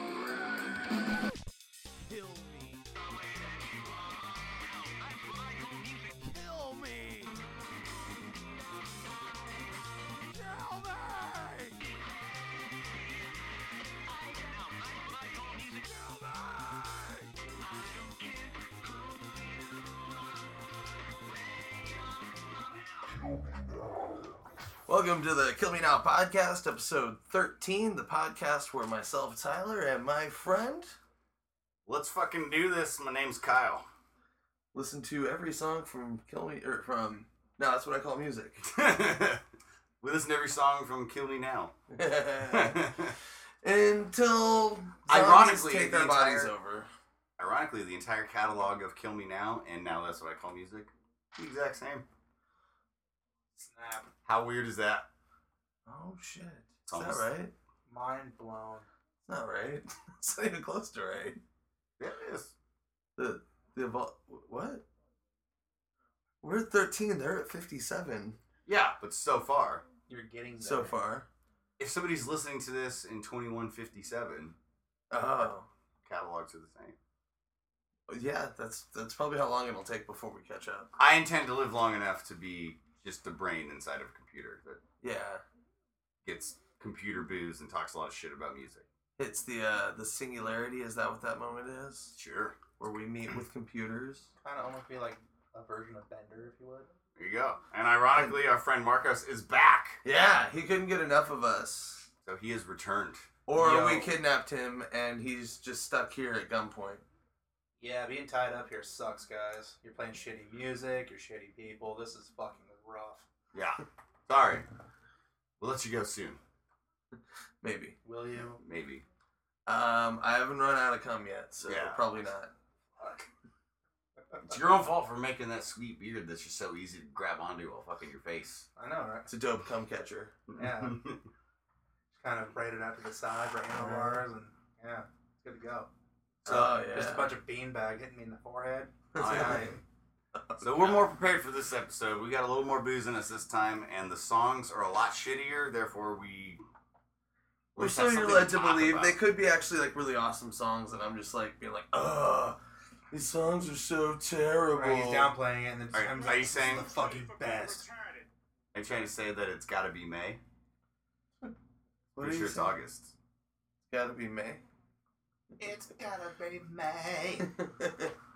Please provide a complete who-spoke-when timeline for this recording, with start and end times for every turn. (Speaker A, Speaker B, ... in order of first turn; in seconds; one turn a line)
Speaker A: 2.0-2.9
Speaker A: 4.8-7.3
Speaker A: 10.3-11.8
Speaker A: 14.5-17.3
Speaker A: 18.0-18.6
Speaker B: 24.9-30.9
Speaker A: 31.9-33.9
Speaker B: 34.7-38.6
Speaker A: 38.6-39.4
Speaker A: 40.0-41.7
Speaker B: 41.9-43.0
Speaker A: 42.5-43.1
Speaker B: 43.6-46.9
Speaker A: 45.1-46.5
Speaker A: 47.4-52.0
Speaker C: 53.6-54.1
Speaker A: 54.2-55.0
Speaker B: 55.9-57.5
Speaker A: 56.9-57.2
Speaker C: 57.9-58.9
Speaker B: 59.2-61.4
Speaker A: 62.0-62.5
Speaker B: 63.2-64.8
Speaker B: 66.4-68.4
Speaker A: 68.7-69.8
Speaker C: 70.1-71.0
Speaker B: 70.6-71.3
Speaker A: 71.8-74.5
Speaker B: 75.1-75.7
Speaker A: 76.0-77.0
Speaker B: 78.1-80.9
Speaker A: 81.0-84.8
Speaker B: 85.0-85.4
Speaker A: 86.2-88.8
Speaker B: 89.2-92.2
Speaker A: 92.2-92.6
Speaker B: 92.8-94.3
Speaker C: 94.4-96.9
Speaker A: 97.2-100.0
Speaker B: 100.0-102.1
Speaker A: 102.2-103.3
Speaker B: 103.5-107.0
Speaker C: 103.5-104.2
Speaker C: 107.8-113.2
Speaker A: 113.5-114.7
Speaker A: 115.6-116.4
Speaker B: 117.6-118.0
Speaker C: 118.0-118.6
Speaker A: 118.6-119.0
Speaker B: 119.7-122.5
Speaker A: 121.6-122.0
Speaker A: 124.4-128.7
Speaker C: 128.8-129.3
Speaker B: 129.3-130.3
Speaker A: 130.5-131.2
Speaker C: 130.5-131.0
Speaker C: 132.1-135.9
Speaker B: 133.7-134.2
Speaker C: 136.4-139.8
Speaker B: 136.5-137.3
Speaker B: 139.1-139.8
Speaker A: 139.2-139.7
Speaker B: 140.3-141.1
Speaker A: 140.6-146.6
Speaker A: 147.7-149.2
Speaker B: 147.8-152.6
Speaker B: 153.1-155.3
Speaker C: 154.7-157.9
Speaker A: 155.9-157.0
Speaker A: 158.7-160.4
Speaker A: 162.1-163.1
Speaker B: 162.2-162.8
Speaker B: 163.9-164.6
Speaker C: 165.6-167.5
Speaker B: 167.5-168.1